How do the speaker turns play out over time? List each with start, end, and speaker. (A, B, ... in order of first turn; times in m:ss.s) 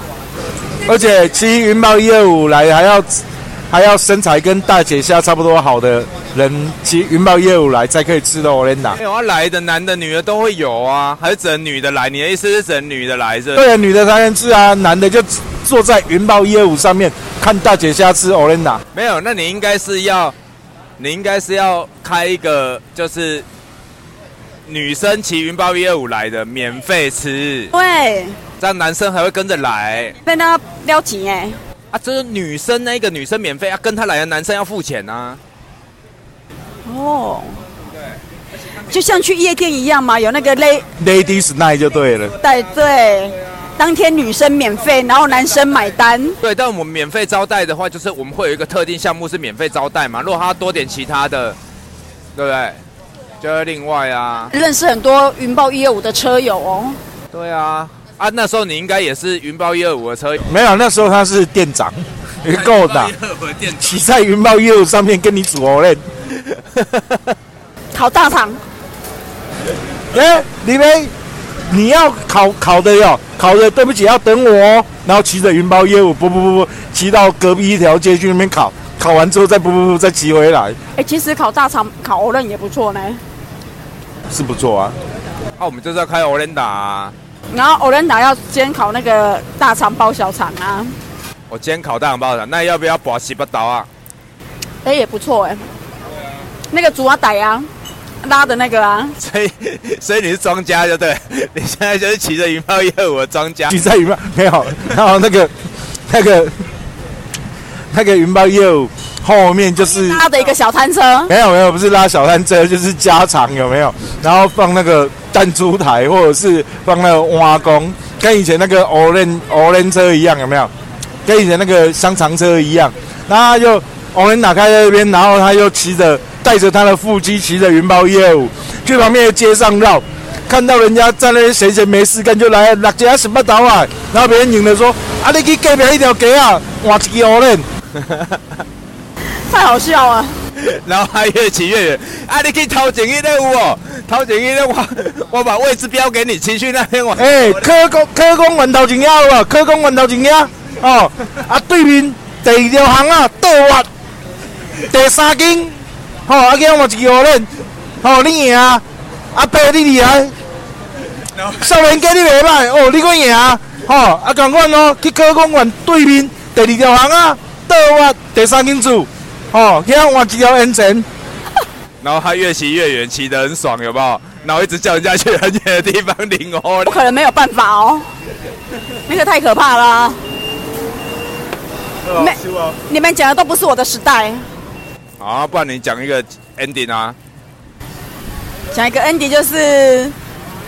0:00.9-0:09.0 A
0:09.0-0:13.6 B
0:13.6-0:18.8 A
0:18.9-0:20.4 B
0:21.0-0:23.4 B
0:24.7-0:27.7 B
0:27.7-0:28.4 C
0:28.6-0:30.2 B
0:30.2-0:31.6 C
0:31.9-0:35.4 B
0:36.9-0:37.6 C
0:38.9-0:40.9 C
0:41.0-0:42.4 A
0:42.4-0:46.4 C
0:46.4-0:51.6 B
0:52.4-0:52.8 B
0:53.4-0:54.5 B
0:54.5-0:57.0 C
0:57.3-1:00.4 B
1:00.5-1:03.1 A
1:02.6-1:03.8 B
1:03.8-1:06.0 A
1:06.5-1:07.3 B
1:07.9-1:08.6 C
1:10.1-1:11.1 A
1:11.7-1:20.8 A
1:21.0-1:23.2 C
1:24.3-1:25.0 A
1:25.6-1:27.1 B
1:27.5-1:31.0 C
1:31.5-1:33.9 B
1:34.8-1:35.7 C
1:36.7-1:37.7 C
1:38.2-1:39.2 C
1:39.2-1:43.8 B
1:43.7-1:45.6 A
1:46.1-1:46.7 A
1:47.9-1:50.2 A
1:49.9-1:51.3 C
1:51.3-2:00.7 A
2:01.3-2:17.6 A
2:18.0-2:18.6 B
2:19.5-2:20.4 C
2:20.6-2:27.6 B
2:27.2-2:33.9 A
2:34.8-2:37.5 A
2:38.0-2:40.3 A
2:41.4-2:51.1 A
2:52.0-2:57.0 B
2:56.9-2:58.1 C
2:59.1-3:00.2 C
3:02.1-3:04.5 C
3:05.2-3:07.2 B
3:08.7-3:10.2 C